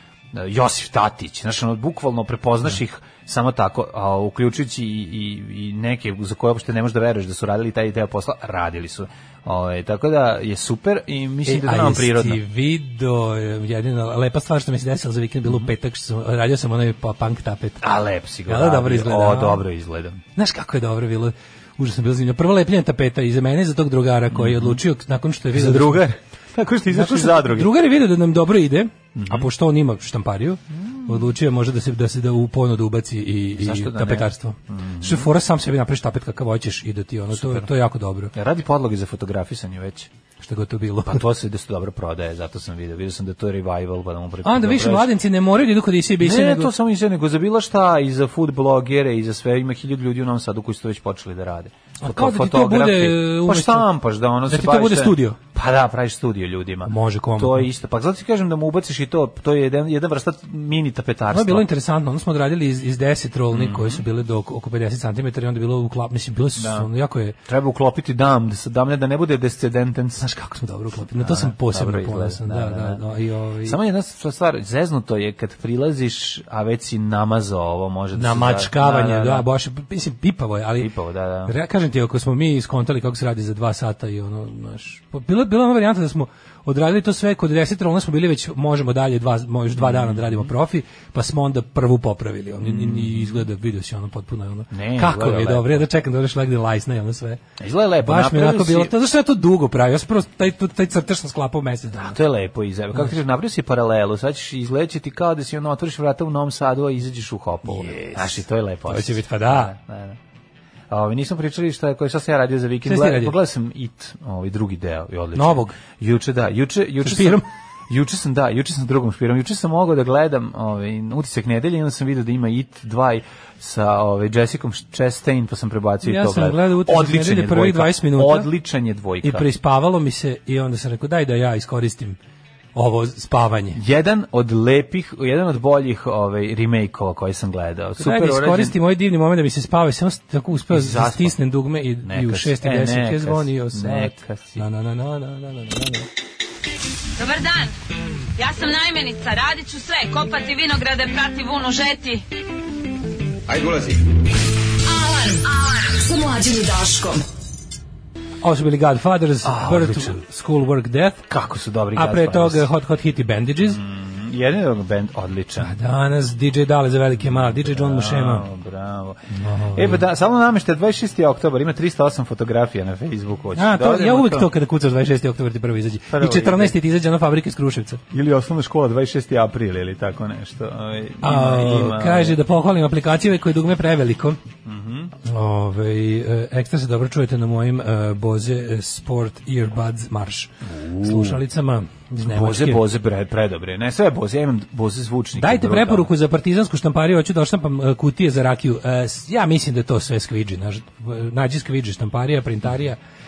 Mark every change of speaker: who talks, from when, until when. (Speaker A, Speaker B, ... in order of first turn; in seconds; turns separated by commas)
Speaker A: 0.3-12.4, Speaker B: 11.5-17.8, Speaker A: 15.4-15.7, Speaker A: 17.8-20.2, Speaker B: 18.5-19.6, Speaker B: 20.4-26.1, Speaker A: 24.3-24.8, Speaker A: 25.5-27.7, Speaker B: 26.9-38.3, Speaker A: 29.1-29.5, Speaker A: 30.7-31.3, Speaker A: 33.6-35.3, Speaker A: 37.3-37.7, Speaker A: 38.3-40.1, Speaker B: 40.4-41.2, Speaker A: 41.1-45.1, Speaker B: 44.4-46.7, Speaker A: 46.2-61.7, Speaker B: 52.0-53.9, Speaker B: 54.5-55.4, Speaker B: 56.9-57.7, Speaker B: 61.3-67.4, Speaker A: 63.5-64.0, Speaker A: 66.6-66.9, Speaker A: 67.5-70.3, Speaker B: 70.2-73.8, Speaker A: 71.1-73.0, Speaker A: 73.6-79.5, Speaker B: 78.1-80.9, Speaker A: 80.8-81.5, Speaker B: 81.5-97.4, Speaker A: 89.8-90.5, Speaker A: 92.6-93.5, Speaker A: 94.7-95.9, Speaker A: 97.6-98.9, Speaker B: 98.0-102.2, Speaker A: 102.0-110.2, Speaker B: 107.7-109.7, Speaker A: 110.9-129.5, Speaker B: 112.9-113.4, Speaker B: 115.3-115.8, Speaker B: 117.0-117.5, Speaker B: 126.0-128.5, Speaker B: 129.2-132.2, Speaker B: 132.8-133.8, Speaker A: 133.8-138.8, Speaker B: 138.0-146.1, Speaker A: 140.7-141.4, Speaker A: 142.0-144.7, Speaker C: 147.2-147.7, Speaker C: 148.4-152.2, Speaker C: 154.8-157.2, Speaker B: 158.4-161.3, Speaker A: 159.4-160.2, Speaker A: 161.3-162.7, Speaker B: 161.9-163.8, Speaker A: 163.6-165.8, Speaker B: 165.6-168.5, Speaker A: 167.2-169.2, Speaker B: 169.3-170.0, Speaker A: 169.7-174.5, Speaker B: 173.6-178.0, Speaker A: 176.1-176.8, Speaker A: 178.1-182.4, Speaker B: 181.2-184.4, Speaker A: 184.7-185.1, Speaker B: 185.2-192.8, Speaker A: 190.7-191.4, Speaker A: 192.2-196.1, Speaker B: 195.4-203.0